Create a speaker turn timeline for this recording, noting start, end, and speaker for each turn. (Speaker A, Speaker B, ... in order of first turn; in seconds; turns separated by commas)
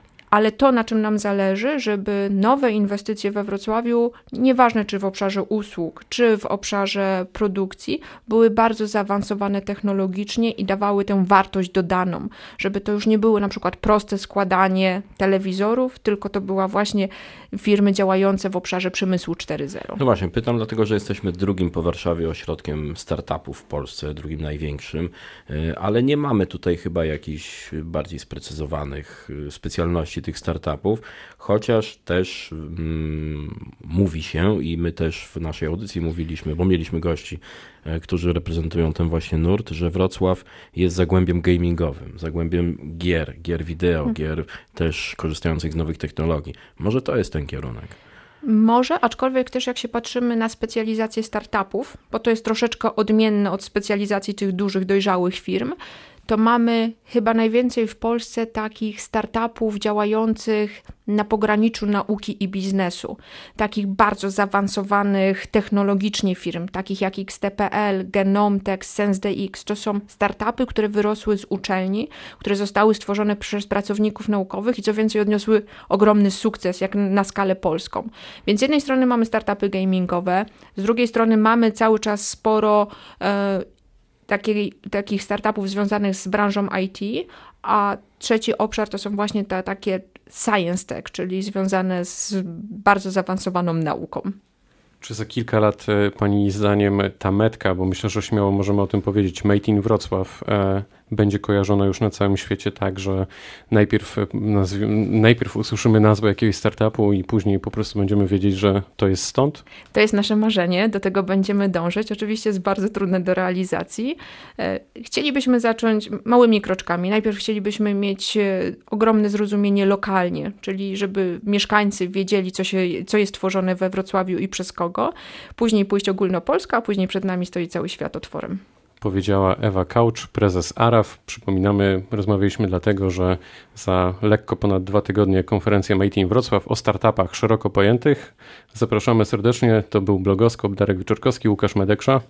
Speaker A: 0.3-20.0, Speaker B: 20.0-48.0, Speaker A: 48.4-55.8, Speaker A: 56.3-83.7, Speaker A: 84.3-94.3, Speaker C: 95.0-109.6, Speaker A: 109.9-128.6, Speaker C: 129.0-142.2